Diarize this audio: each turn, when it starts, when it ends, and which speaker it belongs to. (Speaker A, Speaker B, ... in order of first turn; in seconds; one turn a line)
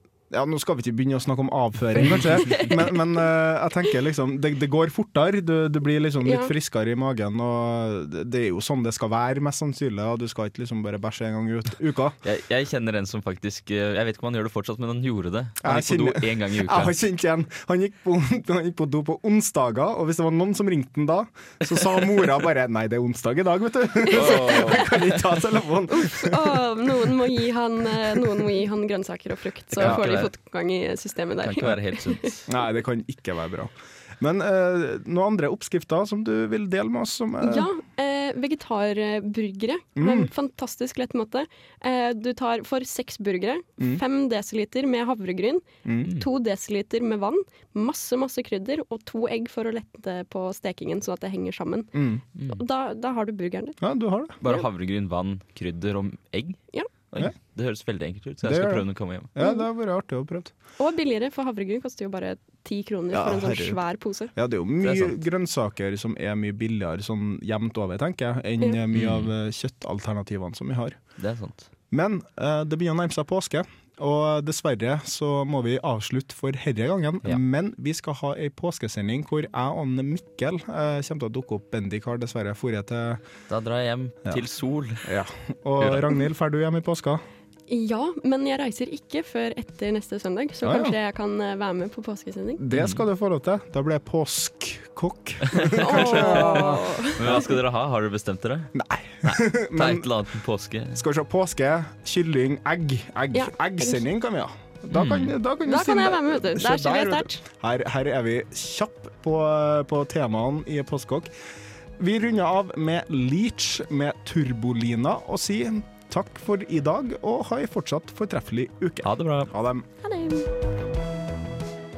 Speaker A: 0.3-12.2
Speaker B: 6.2-6.5
Speaker C: 12.2-17.0
Speaker A: 15.6-26.6
Speaker B: 24.1-24.7
Speaker C: 24.1-25.2
Speaker B: 25.9-32.3
Speaker C: 29.7-30.3
Speaker A: 29.8-30.1
Speaker C: 31.4-32.5
Speaker A: 32.5-37.7
Speaker B: 37.4-53.8
Speaker A: 40.0-40.3
Speaker A: 45.9-46.1
Speaker A: 51.9-52.2
Speaker C: 52.4-52.6
Speaker A: 53.8-54.4
Speaker C: 54.4-59.3
Speaker A: 58.4-60.5
Speaker B: 59.4-59.6
Speaker B: 60.8-64.3
Speaker A: 63.1-63.8
Speaker A: 64.3-71.0
Speaker C: 64.8-65.2
Speaker C: 68.9-69.3
Speaker C: 71.2-71.7
Speaker A: 71.9-83.2
Speaker C: 83.5-85.1
Speaker A: 85.0-87.2
Speaker C: 85.8-86.1
Speaker B: 87.7-92.6
Speaker A: 90.6-91.0
Speaker A: 92.6-96.8
Speaker C: 92.7-93.0
Speaker C: 95.5-101.0
Speaker B: 95.8-97.5
Speaker A: 98.8-100.1
Speaker A: 100.9-111.3
Speaker B: 103.3-104.0
Speaker C: 104.9-105.3
Speaker B: 105.6-107.4
Speaker A: 112.0-119.9
Speaker C: 119.0-119.5
Speaker B: 120.0-120.5